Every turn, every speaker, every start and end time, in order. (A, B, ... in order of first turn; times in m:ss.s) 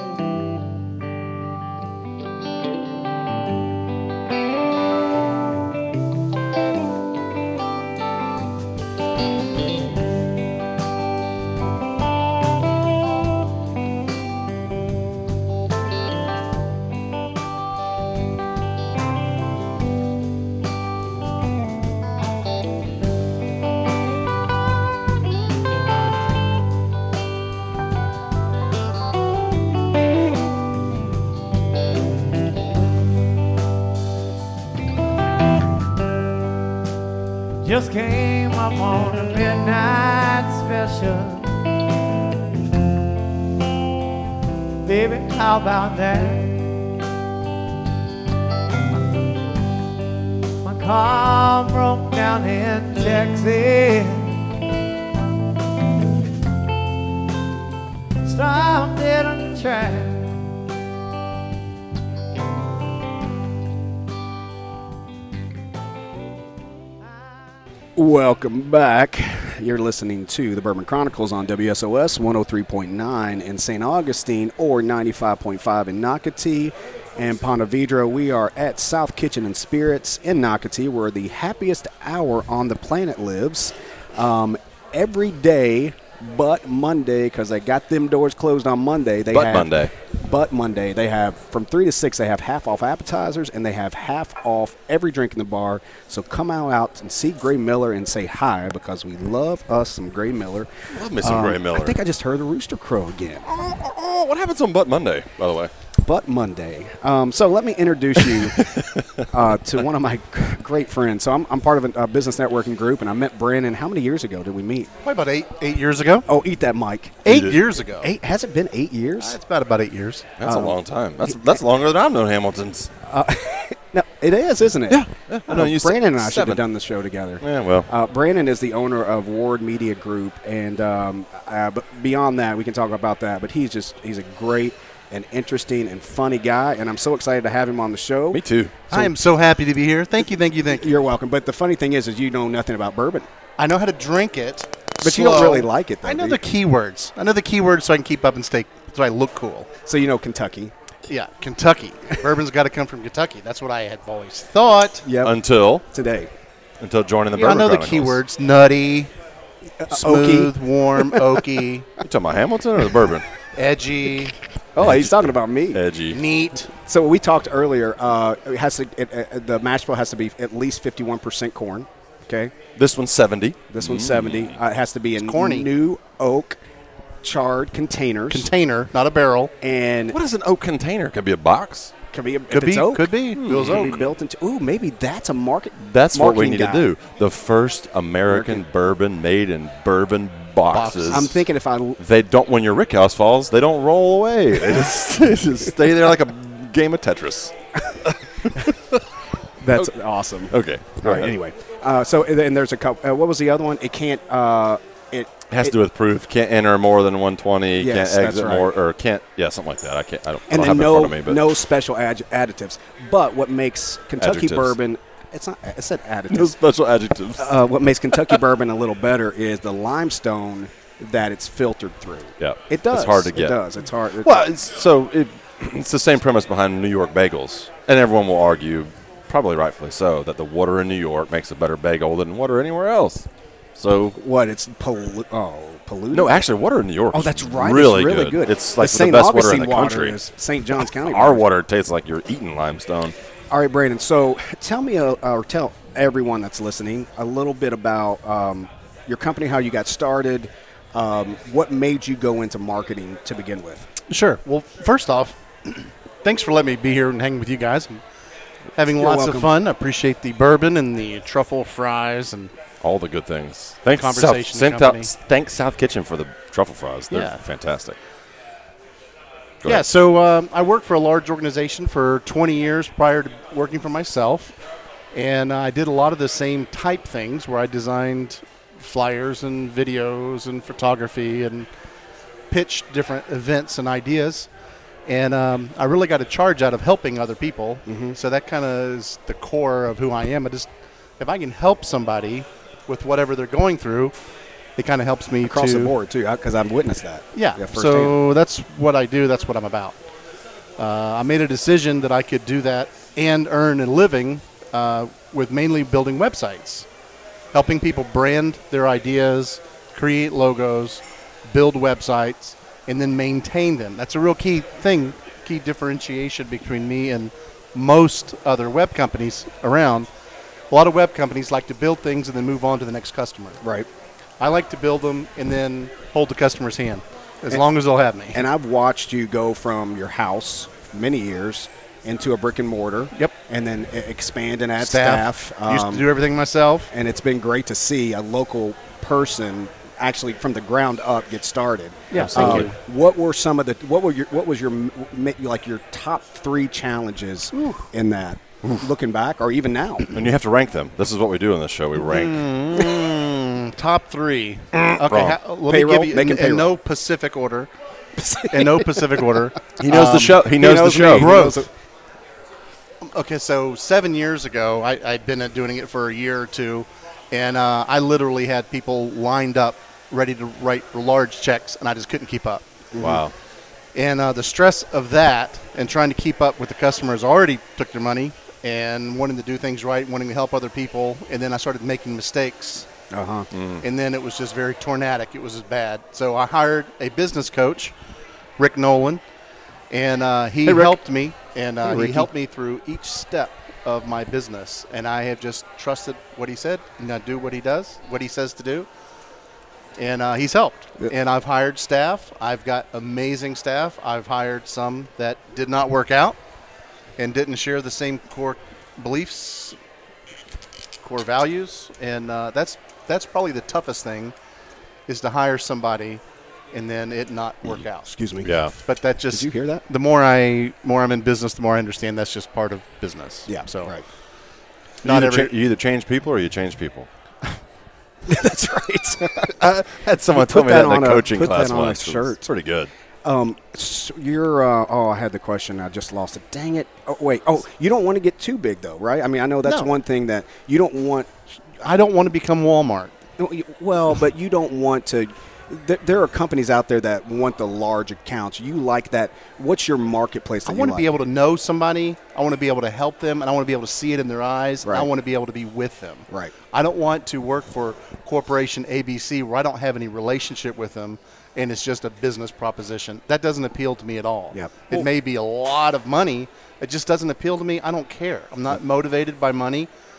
0:37.6-0:41.6 A
0:44.8-0:46.6 A
0:50.6-0:54.4 A
0:58.2-1:00.3 A
1:08.0-1:43.5 B
1:29.3-1:29.9 C
1:40.9-1:42.0 C
1:43.4-1:45.7 C
1:46.0-1:54.9 B
1:48.2-1:49.2 C
1:55.0-1:56.2 D
1:56.2-1:57.5 B
1:57.2-1:58.1 D
1:57.3-1:57.6 C
1:58.0-1:59.4 B
1:59.2-2:00.3 D
2:00.4-2:02.9 C
2:00.4-2:00.8 B
2:03.0-2:19.1 B
2:04.9-2:06.6 C
2:07.4-2:07.9 C
2:18.3-2:18.8 C
2:18.9-2:21.0 D
2:20.8-2:23.3 B
2:23.6-2:29.7 D
2:25.0-2:26.4 B
2:29.8-2:30.7 B
2:31.1-2:35.0 D
2:35.0-2:35.4 B
2:35.2-2:35.8 C
2:35.9-2:36.3 B
2:36.8-2:38.2 C
2:37.4-2:39.1 D
2:39.8-2:41.4 B
2:39.9-2:41.9 D
2:42.0-2:43.2 C
2:43.5-2:44.4 D
2:44.7-2:45.8 B
2:44.8-2:46.2 C
2:46.1-2:46.7 D
2:46.7-2:52.5 B
2:52.8-2:54.6 C
2:53.7-2:56.6 B
2:55.2-2:55.7 D
2:57.2-2:58.5 B
2:58.3-2:59.5 D
2:59.6-3:00.2 B
3:00.1-3:01.9 C
3:02.1-3:06.9 B
3:02.5-3:04.0 D
3:03.4-3:04.0 C
3:05.8-3:11.4 C
3:08.3-3:08.6 B
3:10.7-3:11.4 D
3:11.1-3:12.0 B
3:12.0-3:19.0 C
3:19.6-3:25.7 B
3:20.5-3:21.3 C
3:25.5-3:31.5 C
3:27.8-3:28.7 B
3:30.5-3:36.6 B
3:34.2-3:34.8 C
3:36.3-3:37.6 C
3:37.4-3:44.5 B
3:42.4-3:43.6 C
3:44.2-3:54.2 C
3:54.1-3:56.4 B
3:56.1-4:00.2 C
3:57.1-4:01.4 B
4:00.8-4:03.1 C
4:03.5-4:13.9 B
4:14.1-4:18.0 D
4:18.8-4:22.5 D
4:19.0-4:19.5 B
4:22.8-4:28.0 C
4:24.0-4:25.1 D
4:27.1-4:27.4 D
4:29.6-4:29.9 C
4:29.6-4:34.6 D
4:35.1-4:41.7 D
4:42.5-4:44.5 D
4:45.1-4:54.1 D
4:47.8-4:48.2 B
4:54.8-4:55.9 D
4:55.4-4:58.2 B
4:57.3-5:00.0 D
5:00.8-5:06.8 D
5:07.5-5:20.1 D
5:20.7-5:23.6 D
5:23.6-5:23.9 B
5:24.4-5:28.4 D
5:28.3-5:36.1 B
5:34.8-5:36.9 D
5:36.9-5:50.1 B
5:42.1-5:42.7 D
5:42.1-5:42.7 C
5:47.5-5:47.8 D
5:50.1-5:53.1 C
5:52.0-5:57.7 D
5:54.7-5:55.4 C
5:55.7-5:56.7 B
5:58.2-5:59.2 B
5:58.5-6:01.6 D
5:59.8-6:01.4 C
5:59.9-6:01.7 B
6:03.0-6:12.7 D
6:12.9-6:13.2 B
6:13.0-6:13.3 C
6:13.9-6:22.9 D
6:23.1-6:23.5 B
6:23.5-6:23.8 C
6:23.8-6:27.9 D
6:28.6-6:29.2 D
6:29.9-6:38.9 D
6:30.6-6:31.0 B
6:31.8-6:32.3 B
6:40.0-6:46.4 D
6:47.2-6:49.8 D
6:51.0-6:54.3 D
6:55.1-6:56.2 D
6:56.7-6:58.1 D
6:58.0-6:58.6 B
6:58.4-6:58.7 C
6:58.8-7:03.9 D
6:59.3-6:59.8 B
7:03.5-7:04.0 B
7:05.0-7:05.5 D
7:05.0-7:07.1 C
7:08.3-7:09.5 B
7:09.4-7:12.9 C
7:10.3-7:12.4 B
7:13.2-7:21.3 B
7:19.6-7:19.9 D
7:21.8-7:23.2 D
7:23.4-7:31.1 B
7:30.6-7:49.9 D
7:34.8-7:35.1 B
7:44.5-7:45.0 B